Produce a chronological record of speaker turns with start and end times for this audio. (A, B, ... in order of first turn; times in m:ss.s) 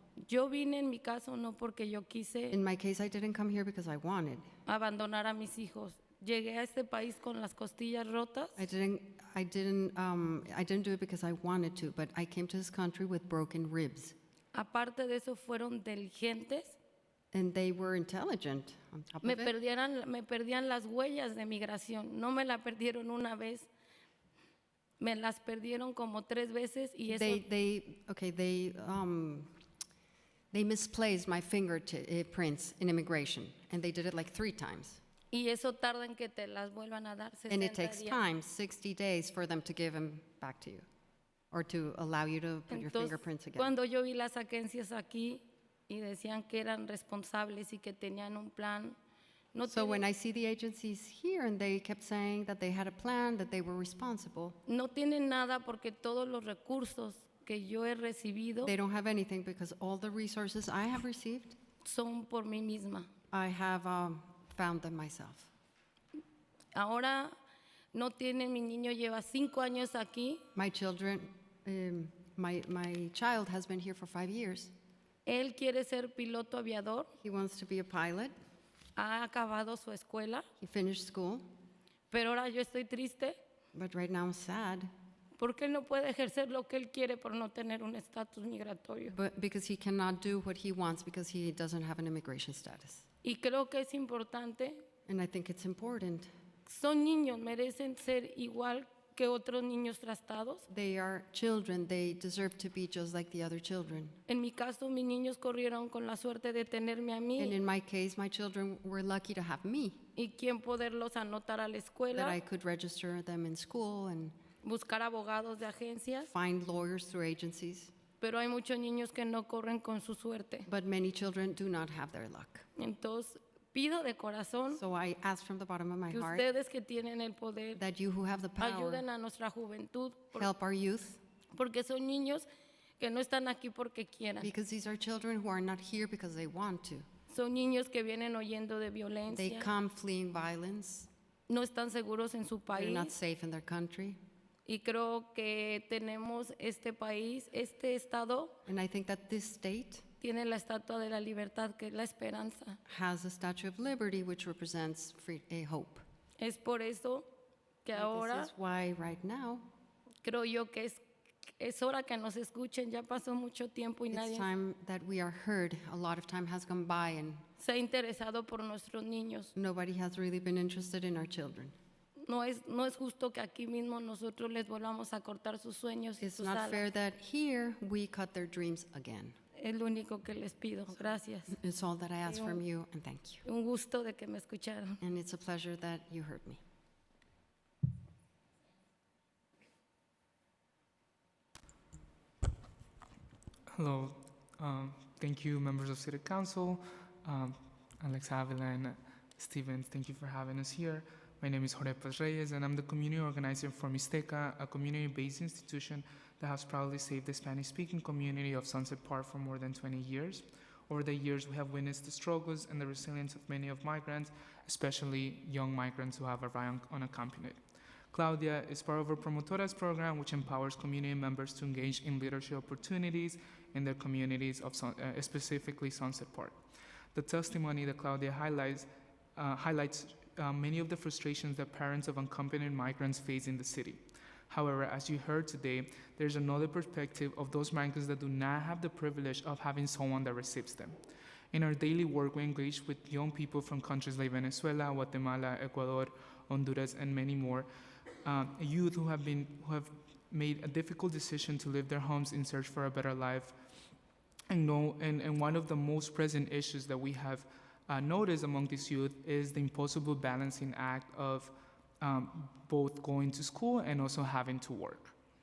0:00.2-0:02.6 A
0:02.5-0:04.4 B
0:04.6-0:08.7 A
0:08.6-0:14.2 B
0:14.5-0:16.8 A
0:17.3-0:19.5 B
0:19.2-0:23.7 A
0:25.0-0:27.4 A
0:27.1-0:29.5 B
0:30.5-0:35.0 B
0:35.3-0:38.2 A
0:37.5-0:40.8 B
0:41.5-0:43.7 B
0:42.7-0:49.0 A
0:49.5-0:50.0 A
0:49.7-0:54.6 B
0:54.6-0:58.7 A
0:58.6-1:01.6 B
1:01.8-1:03.1 A
1:03.3-1:05.5 B
1:06.7-1:07.3 A
1:07.9-1:10.4 A
1:10.5-1:14.7 B
1:15.2-1:17.1 A
1:17.2-1:18.3 B
1:19.0-1:20.4 A
1:20.6-1:21.4 B
1:22.1-1:23.4 A
1:23.7-1:24.9 B
1:25.4-1:29.1 A
1:29.1-1:33.0 B
1:33.2-1:34.8 A
1:35.1-1:36.3 B
1:36.6-1:40.6 A
1:40.7-1:44.2 B
1:44.3-1:47.6 A
1:47.4-1:50.0 B
1:50.2-1:52.4 A
1:52.1-1:54.3 B
1:54.6-1:56.3 A
1:56.2-1:57.9 B
1:58.2-2:00.7 A
2:00.7-2:02.7 B
2:02.8-2:04.8 A
2:04.7-2:06.5 B
2:06.1-2:07.8 A
2:07.8-2:09.0 B
2:08.6-2:10.4 A
2:10.3-2:11.2 B
2:11.5-2:12.4 A
2:13.0-2:14.5 A
2:14.4-2:17.0 B
2:17.3-2:19.7 A
2:19.3-2:21.1 B
2:21.5-2:23.1 A
2:22.7-2:24.2 B
2:24.6-2:28.5 A
2:28.6-2:30.0 B
2:30.2-2:32.8 A
2:32.9-2:36.0 B
2:36.4-2:37.3 A
2:37.8-2:38.5 A
2:37.9-2:39.6 B
2:40.2-2:41.0 A
2:41.6-2:44.5 A
2:44.1-2:47.4 B
2:47.6-2:49.5 A
2:49.6-2:51.7 B
2:52.2-2:56.8 A
2:56.2-2:59.3 B
2:59.6-3:01.5 A
3:01.5-3:03.4 B
3:02.3-3:02.6 A
3:03.4-3:05.0 A
3:05.0-3:06.6 B
3:13.7-3:37.6 C
3:38.1-3:46.6 C
3:47.1-3:54.0 C
3:54.5-4:00.9 C
4:01.5-4:07.7 C
4:08.2-4:13.5 C
4:14.5-4:25.1 C